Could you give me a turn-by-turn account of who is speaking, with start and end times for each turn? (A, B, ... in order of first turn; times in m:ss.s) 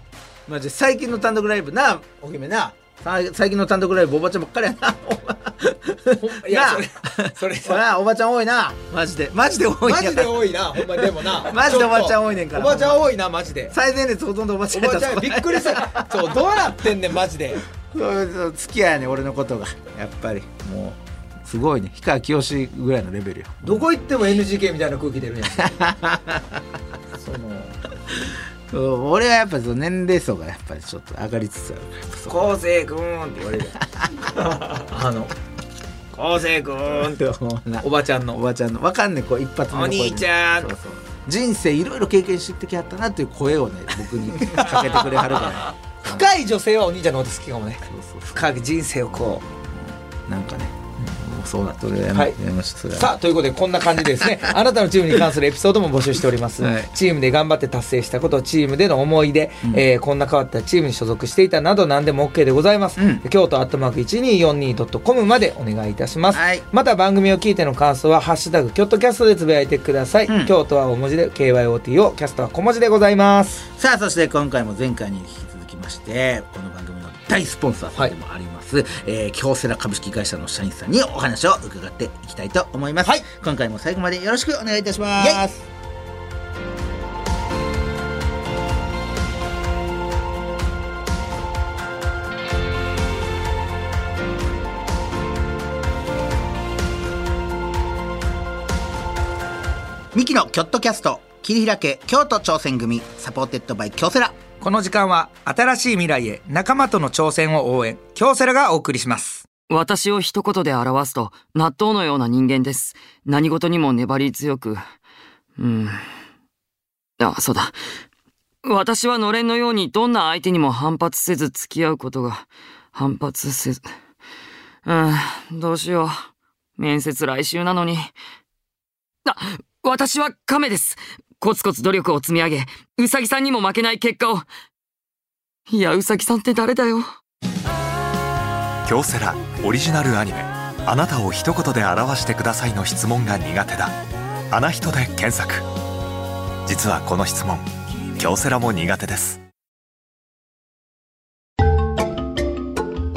0:00.4-0:13.0 A
0:06.1-0:07.8 B
0:09.8-0:13.7 B
0:13.7-0:16.2 A
0:14.7-0:17.6 B
0:17.9-0:23.9 A
0:23.6-0:25.8 B
0:25.6-0:26.6 A
0:27.2-0:27.8 B
0:28.7-0:32.5 A
0:32.3-0:33.7 B
0:33.4-0:34.1 A
0:34.3-0:35.3 B
0:36.1-0:37.2 B
0:36.8-0:46.3 A
0:37.8-0:38.4 B
0:39.7-0:40.7 B
0:44.4-0:49.4 B
0:47.8-0:48.5 A
0:50.3-0:53.2 A
0:52.9-1:13.6 B
1:03.0-1:03.2 A
1:06.3-1:06.6 A
1:10.3-1:10.5 A
1:13.7-1:25.6 A
1:40.1-1:44.4 A
1:44.6-1:49.4 B
1:49.7-1:54.8 C
1:55.6-1:56.0 C
1:57.2-1:57.8 C
1:58.6-2:03.9 C
2:04.8-2:06.2 C
2:06.8-2:08.1 C
2:09.2-2:14.5 C
2:15.7-2:17.1 C
2:18.8-2:24.0 D
2:24.5-2:25.6 D
2:26.6-2:29.4 D